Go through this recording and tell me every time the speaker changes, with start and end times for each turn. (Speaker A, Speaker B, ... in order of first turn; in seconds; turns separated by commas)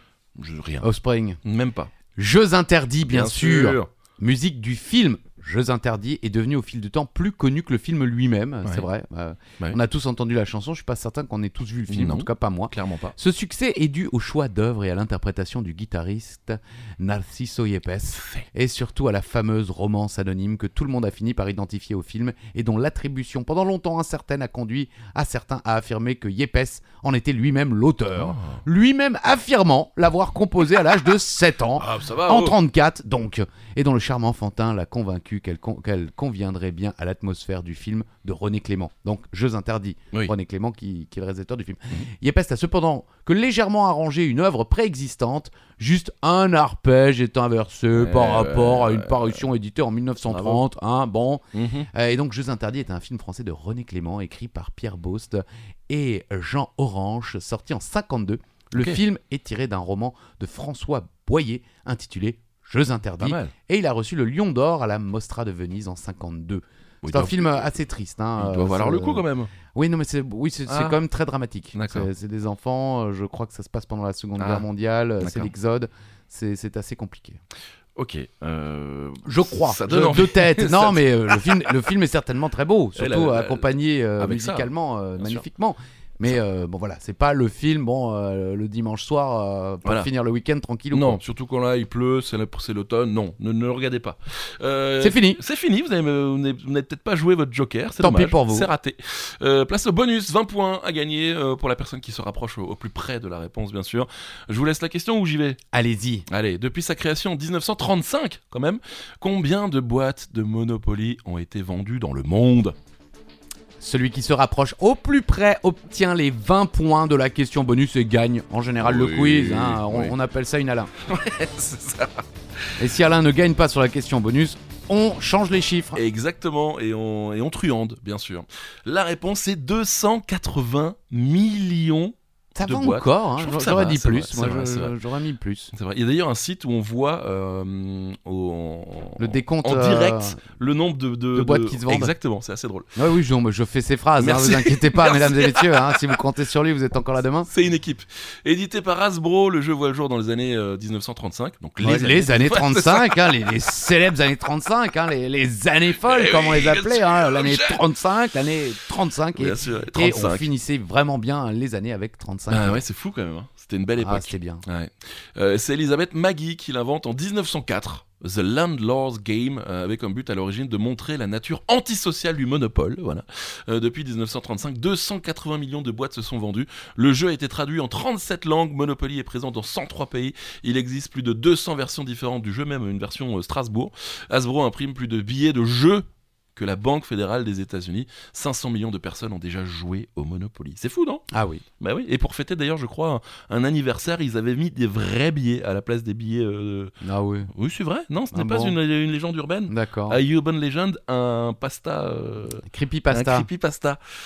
Speaker A: 0.3-0.9, Speaker B: 0.8-1.4, Speaker A: 1.4-1.9, Speaker B: 2.1-77.4, Speaker A: 3.0-3.9, Speaker A: 11.9-13.1, Speaker A: 28.2-28.6, Speaker A: 31.8-32.6, Speaker A: 47.9-49.4, Speaker A: 50.3-50.6, Speaker A: 51.5-51.9, Speaker A: 63.2-63.5, Speaker A: 67.0-67.4, Speaker A: 68.4-69.5, Speaker A: 70.7-71.0, Speaker A: 71.7-72.1, Speaker A: 74.4-74.6, Speaker A: 75.2-75.5, Speaker A: 78.0-81.6, Speaker B: 79.2-91.2, Speaker A: 83.0-84.7, Speaker A: 85.2-85.4, Speaker A: 90.9-105.6, Speaker B: 95.0-95.4, Speaker B: 98.0-98.7, Speaker B: 105.7-106.2, Speaker A: 106.3-112.8, Speaker B: 113.8-120.9, Speaker A: 118.8-120.1, Speaker A: 121.0-122.2, Speaker B: 122.8-126.0, Speaker A: 125.9-134.9, Speaker B: 132.6-135.7, Speaker A: 135.7-142.9, Speaker B: 139.2-140.4, Speaker B: 141.3-142.1, Speaker B: 142.9-147.5, Speaker A: 144.2-146.1, Speaker A: 147.4-153.3, Speaker B: 151.8-162.8, Speaker A: 156.0-157.8, Speaker A: 159.3-160.5, Speaker A: 162.5-191.2, Speaker B: 164.0-164.6, Speaker B: 191.3-191.6, Speaker A: 191.8-196.9, Speaker B: 197.0-197.5, Speaker A: 197.5-204.0, Speaker B: 198.3-198.7, Speaker B: 199.7-200.2, Speaker B: 202.6-203.5